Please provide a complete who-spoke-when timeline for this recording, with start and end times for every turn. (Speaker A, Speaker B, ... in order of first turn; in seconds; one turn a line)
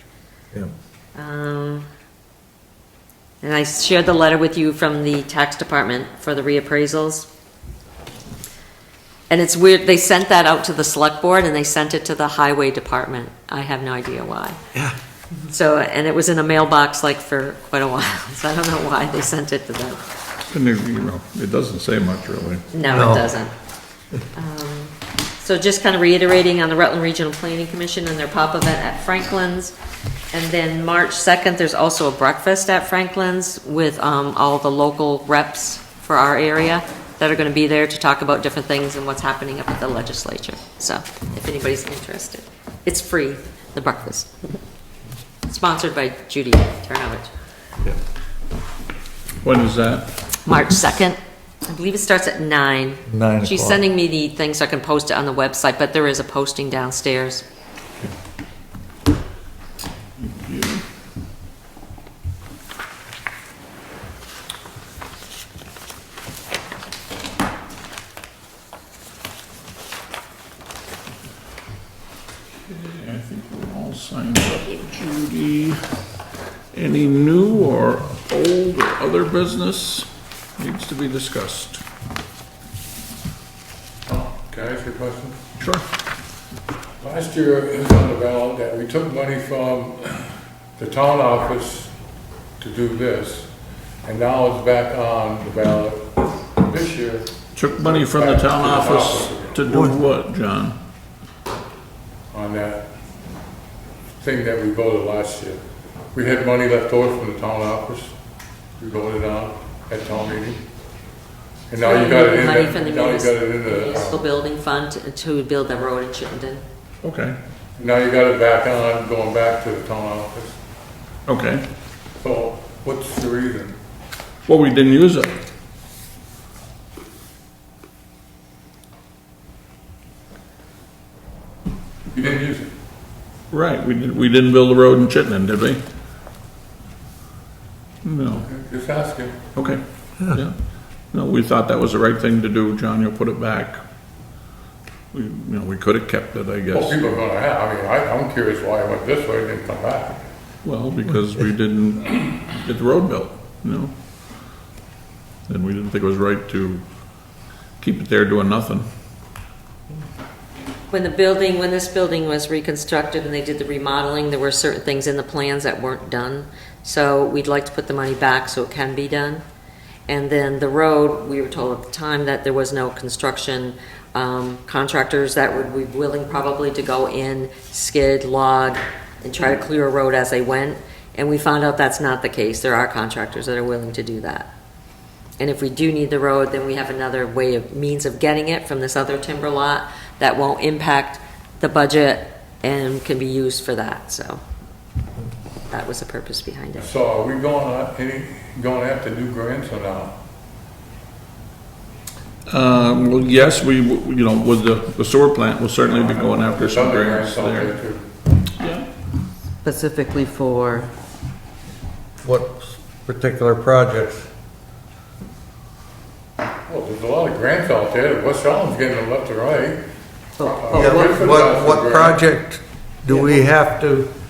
Speaker A: 1.2-1.9
Speaker A: 3.4-7.3
Speaker A: 9.3-14.6
Speaker A: 15.5-20.0
Speaker B: 20.5-22.7
Speaker A: 22.7-23.5
Speaker C: 22.9-23.3
Speaker A: 24.3-29.7
Speaker A: 30.3-44.3
Speaker A: 45.5-47.3
Speaker B: 49.4-50.1
Speaker A: 50.5-57.4
Speaker C: 53.1-53.8
Speaker B: 60.2-60.8
Speaker B: 72.7-75.8
Speaker B: 76.7-81.8
Speaker D: 84.1-85.4
Speaker B: 85.6-85.8
Speaker D: 87.0-91.9
Speaker D: 92.6-93.5
Speaker D: 94.0-99.9
Speaker B: 97.5-100.8
Speaker D: 102.3-102.8
Speaker D: 104.2-105.6
Speaker D: 106.1-108.1
Speaker D: 108.8-110.6
Speaker D: 111.7-114.2
Speaker A: 111.8-116.6
Speaker B: 117.0-117.4
Speaker D: 117.8-120.6
Speaker B: 121.3-121.6
Speaker D: 122.2-123.8
Speaker B: 124.5-125.4
Speaker D: 132.1-132.7
Speaker B: 133.5-135.8
Speaker B: 138.0-138.5
Speaker D: 138.3-139.4
Speaker B: 139.6-140.5
Speaker B: 141.1-143.8
Speaker B: 145.1-147.2
Speaker D: 146.7-150.2
Speaker B: 150.6-153.9
Speaker B: 155.5-156.8
Speaker B: 157.8-158.9
Speaker A: 160.9-169.4
Speaker A: 170.1-184.5
Speaker A: 185.4-194.4
Speaker A: 195.7-196.9
Speaker D: 196.8-200.1
Speaker B: 202.5-207.8
Speaker D: 205.9-208.1
Speaker B: 208.6-208.9
Speaker E: 209.6-210.9
Speaker C: 212.2-214.3
Speaker D: 216.7-219.8
Speaker E: 220.4-221.1
Speaker D: 220.4-222.2
Speaker C: 220.7-224.1